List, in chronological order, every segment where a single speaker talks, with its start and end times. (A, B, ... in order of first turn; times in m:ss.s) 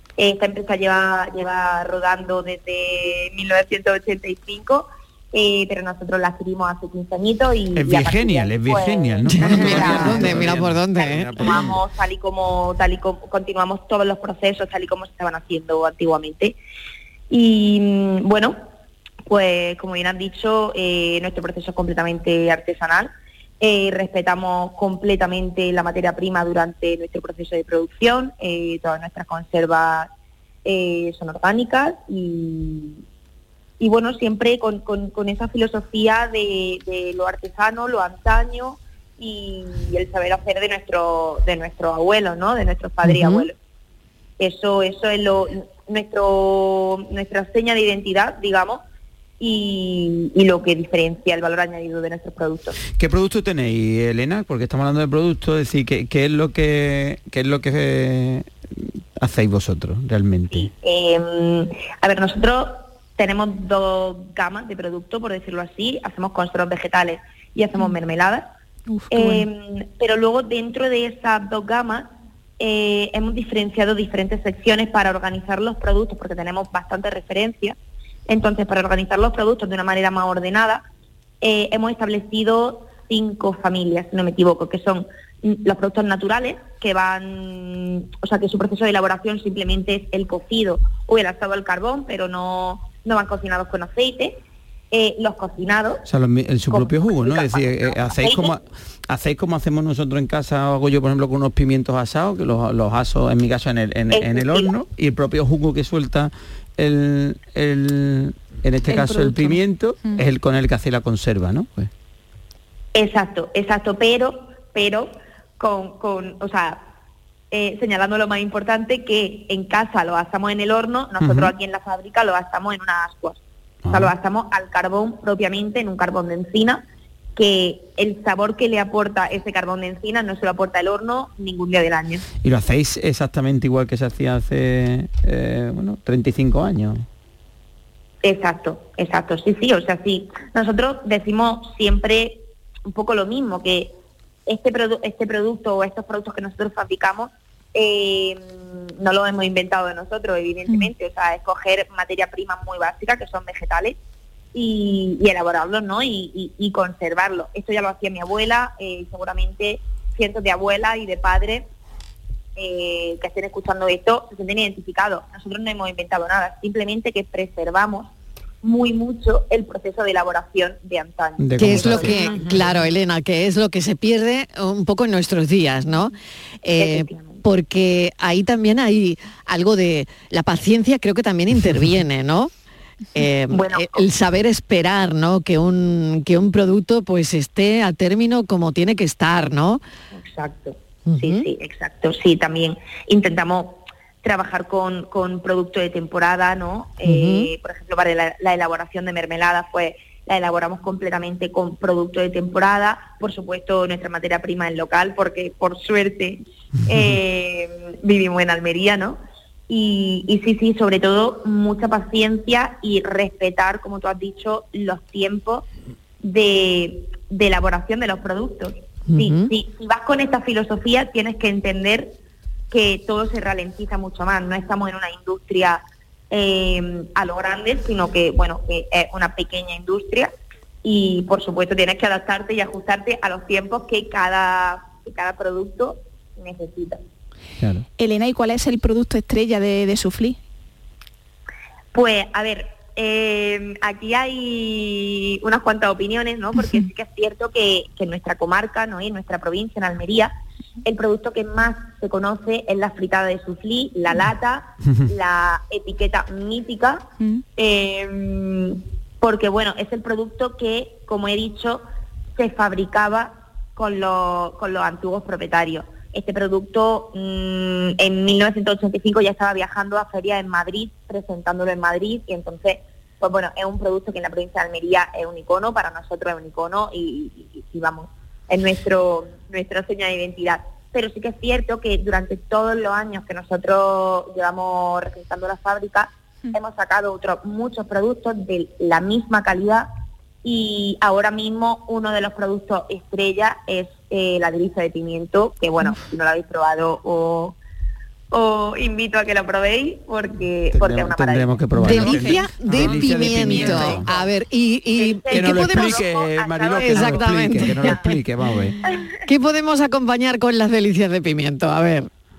0:00.2-0:16.6 A
0:07.7-0:11.8 B
0:09.3-0:11.6 C
0:17.3-0:18.6 A
0:19.2-0:30.1 A
0:30.6-0:33.0 A
0:33.8-0:43.6 A
0:43.0-0:43.5 C
0:44.4-0:48.8 A
0:49.4-0:52.8 A
0:52.9-1:00.7 B
1:00.5-1:08.5 A
1:08.9-1:09.5 D
1:09.1-1:17.8 A
1:18.3-1:20.8 A
1:21.4-1:36.0 A
1:36.0-1:51.9 B
1:36.7-1:38.6 A
1:44.1-1:44.7 A
1:48.9-1:50.3 D
1:52.9-1:56.8 A
1:57.5-2:06.8 A
2:01.2-2:01.5 B
2:03.8-2:04.1 B
2:07.4-2:12.2 A
2:12.4-2:17.0 B
2:18.2-2:23.9 A
2:24.4-2:34.0 A
2:34.5-2:41.6 A
2:42.6-2:52.9 A
2:51.4-2:52.7 B
2:51.6-3:02.5 C
2:56.8-2:57.4 A
3:03.1-3:09.8 C
3:03.5-3:04.1 A
3:10.1-3:35.6 A
3:11.0-3:11.4 C
3:17.0-3:17.5 C
3:36.2-3:42.1 A
3:39.1-3:39.5 C
3:42.7-3:50.3 A
3:50.8-3:57.0 A
3:57.6-3:57.8 B
3:58.0-4:00.4 D
4:01.9-4:10.3 A
4:10.8-4:21.8 A
4:22.4-4:49.9 A
4:50.4-4:57.6 A
4:58.3-5:01.6 A
5:00.7-5:04.1 B
5:01.7-5:06.0 C
5:01.8-5:04.0 D
5:04.9-5:08.1 A
5:05.3-5:08.8 B
5:06.7-5:08.1 C
5:09.3-5:12.1 C